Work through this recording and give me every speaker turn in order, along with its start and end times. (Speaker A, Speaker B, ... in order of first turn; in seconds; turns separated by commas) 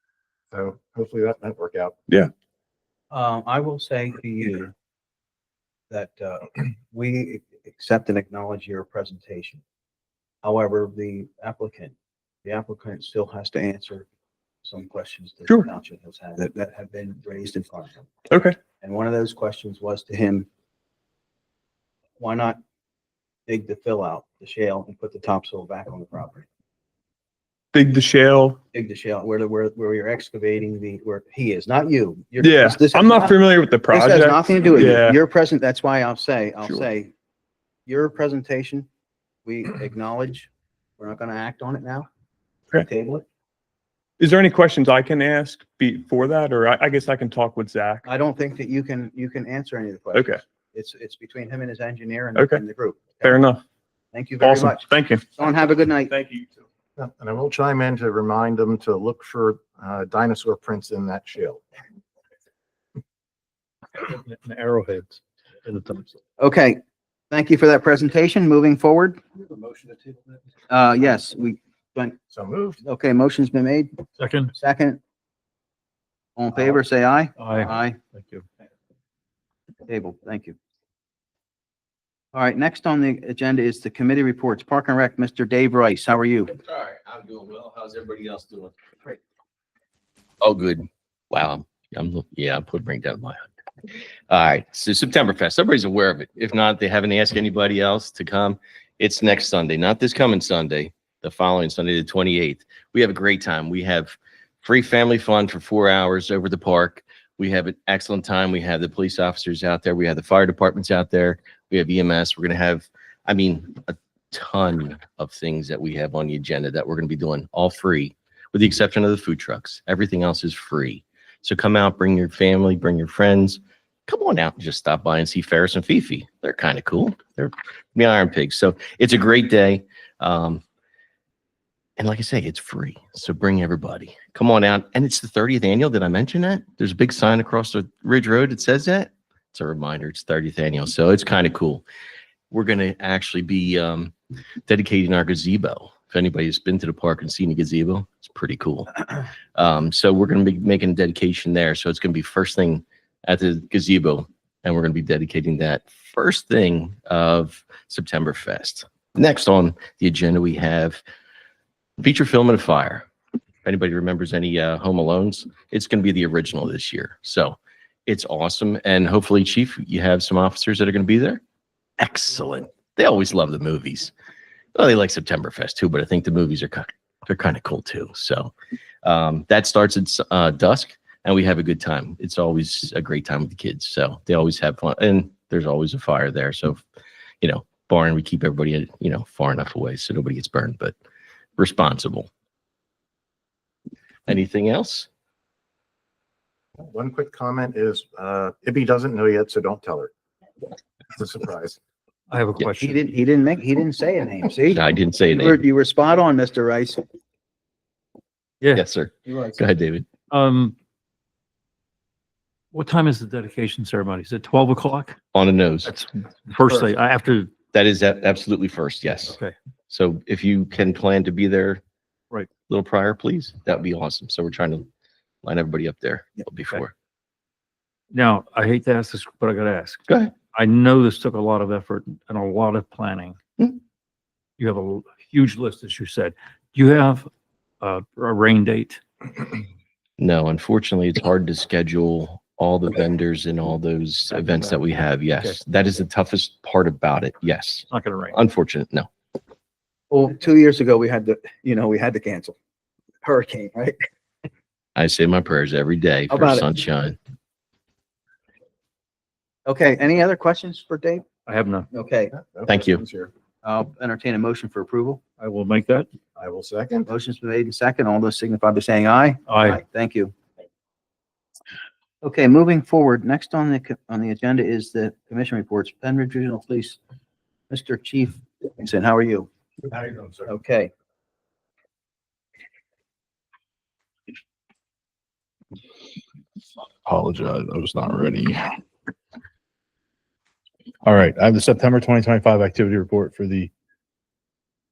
Speaker A: 0.5-1.9, Speaker B: 3.1-4.7, Speaker B: 5.9-9.6, Speaker B: 10.4-11.9, Speaker B: 12.4-14.1, Speaker B: 14.6-18.1, Speaker C: 18.3-18.6, Speaker B: 18.8-20.5, Speaker B: 22.2-22.6, Speaker B: 23.5-26.5, Speaker C: 27.7-28.6, Speaker B: 28.7-33.4, Speaker C: 32.4-35.2, Speaker B: 33.9-37.1, Speaker B: 37.9-38.9, Speaker B: 39.5-42.1, Speaker B: 42.8-43.2, Speaker C: 44.2-48.1, Speaker B: 48.1-53.4, Speaker C: 50.1-50.4, Speaker C: 52.4-52.6, Speaker C: 53.2-53.6, Speaker B: 54.1-56.1, Speaker C: 54.4-55.3, Speaker C: 56.1-56.5, Speaker A: 57.0-61.6, Speaker D: 64.0-66.2, Speaker B: 66.4-69.2, Speaker B: 70.7-72.2, Speaker A: 72.3-72.8, Speaker B: 72.8-73.9, Speaker D: 74.2-74.5, Speaker B: 74.6-75.0, Speaker B: 76.4-78.0, Speaker D: 77.4-78.5, Speaker B: 79.9-80.6, Speaker B: 82.3-86.5, Speaker E: 86.6-88.8, Speaker E: 90.4-93.5, Speaker E: 94.3-130.6, Speaker E: 132.0-141.8, Speaker E: 142.5-144.1, Speaker E: 144.7-148.9, Speaker E: 149.6-161.0, Speaker E: 162.0-163.1, Speaker E: 163.7-171.4, Speaker E: 172.0-174.1, Speaker E: 174.8-178.5, Speaker E: 179.0-186.8, Speaker E: 187.4-190.9, Speaker E: 191.6-192.3, Speaker E: 194.3-195.1, Speaker A: 196.8-200.1, Speaker A: 201.1-201.8, Speaker D: 202.3-203.0, Speaker B: 202.8-207.0, Speaker E: 204.7-205.6, Speaker D: 208.6-208.9, Speaker E: 208.7-210.1, Speaker D: 210.3-210.8, Speaker D: 212.7-215.2, Speaker E: 215.3-215.9, Speaker D: 215.8-217.5, Speaker E: 217.7-219.4, Speaker D: 219.3-219.5, Speaker E: 219.9-221.8, Speaker E: 222.7-224.9, Speaker E: 225.4-226.9, Speaker D: 228.1-230.0, Speaker E: 230.1-230.4, Speaker D: 230.5-233.4, Speaker D: 234.6-237.3, Speaker D: 237.8-239.0, Speaker E: 240.2-249.1, Speaker D: 247.9-248.4, Speaker B: 250.1-252.6, Speaker B: 253.2-254.0, Speaker E: 255.0-257.2, Speaker B: 256.3-256.7, Speaker B: 259.7-261.2, Speaker D: 261.5-261.9, Speaker B: 261.9-262.3, Speaker A: 262.4-263.3, Speaker E: 262.7-263.0, Speaker B: 263.6-265.2, Speaker D: 265.4-266.1, Speaker A: 266.4-267.1, Speaker B: 267.1-270.3, Speaker D: 269.5-269.8, Speaker B: 272.2-277.0, Speaker B: 277.7-279.5, Speaker A: 279.9-280.4, Speaker B: 280.5-280.9, Speaker F: 287.1-288.8, Speaker F: 291.0-293.7